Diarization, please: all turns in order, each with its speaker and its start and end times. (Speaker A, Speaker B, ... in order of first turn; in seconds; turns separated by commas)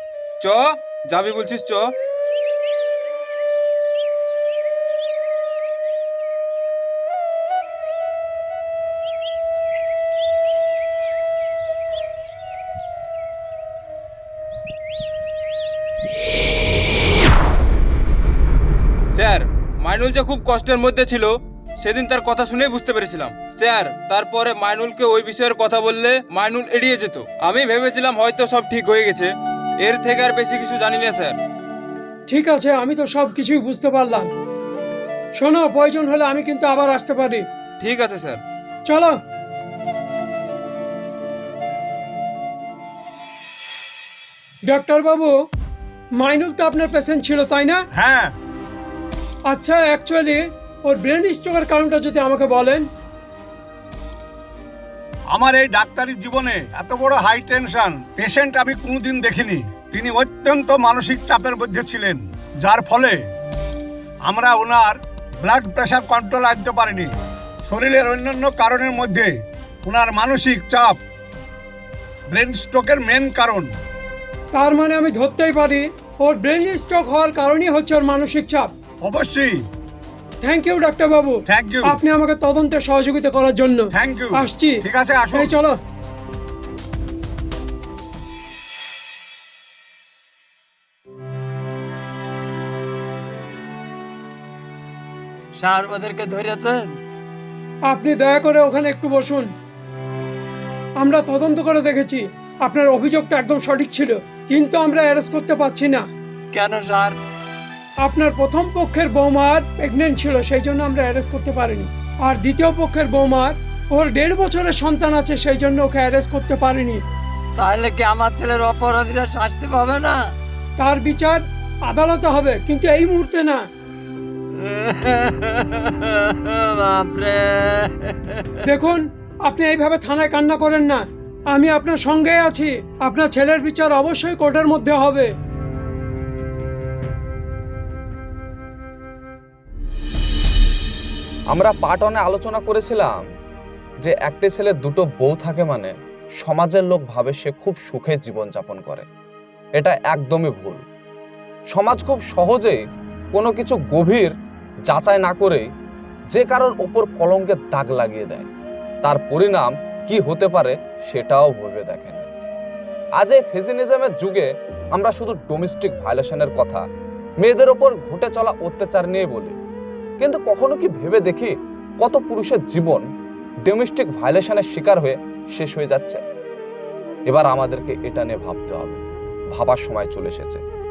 Speaker A: 0.4-1.9, Speaker A: 19.1-31.4, Speaker B: 32.3-34.3, Speaker B: 35.4-37.5, Speaker A: 37.8-38.4, Speaker B: 38.9-39.2, Speaker B: 44.7-45.3, Speaker B: 46.2-47.8, Speaker C: 47.9-48.3, Speaker B: 49.5-52.9, Speaker C: 55.3-63.2, Speaker C: 64.3-67.1, Speaker C: 67.7-71.0, Speaker C: 72.3-73.7, Speaker B: 74.5-78.7, Speaker C: 79.0-79.6, Speaker B: 80.4-85.8, Speaker C: 81.5-82.0, Speaker C: 83.9-85.5, Speaker D: 95.6-96.8, Speaker B: 97.9-99.5, Speaker B: 101.0-106.0, Speaker D: 106.5-107.1, Speaker B: 108.0-117.0, Speaker D: 117.6-120.2, Speaker B: 120.8-123.6, Speaker D: 124.5-128.5, Speaker B: 128.6-135.3, Speaker E: 141.5-143.2, Speaker E: 144.0-149.1, Speaker E: 149.8-150.8, Speaker E: 151.7-152.8, Speaker E: 153.3-154.3, Speaker E: 154.9-155.7, Speaker E: 156.3-158.5, Speaker E: 159.0-162.3, Speaker E: 163.2-166.8, Speaker E: 167.4-169.6, Speaker E: 170.2-173.1, Speaker E: 173.7-176.2, Speaker E: 177.3-179.0, Speaker E: 179.5-180.6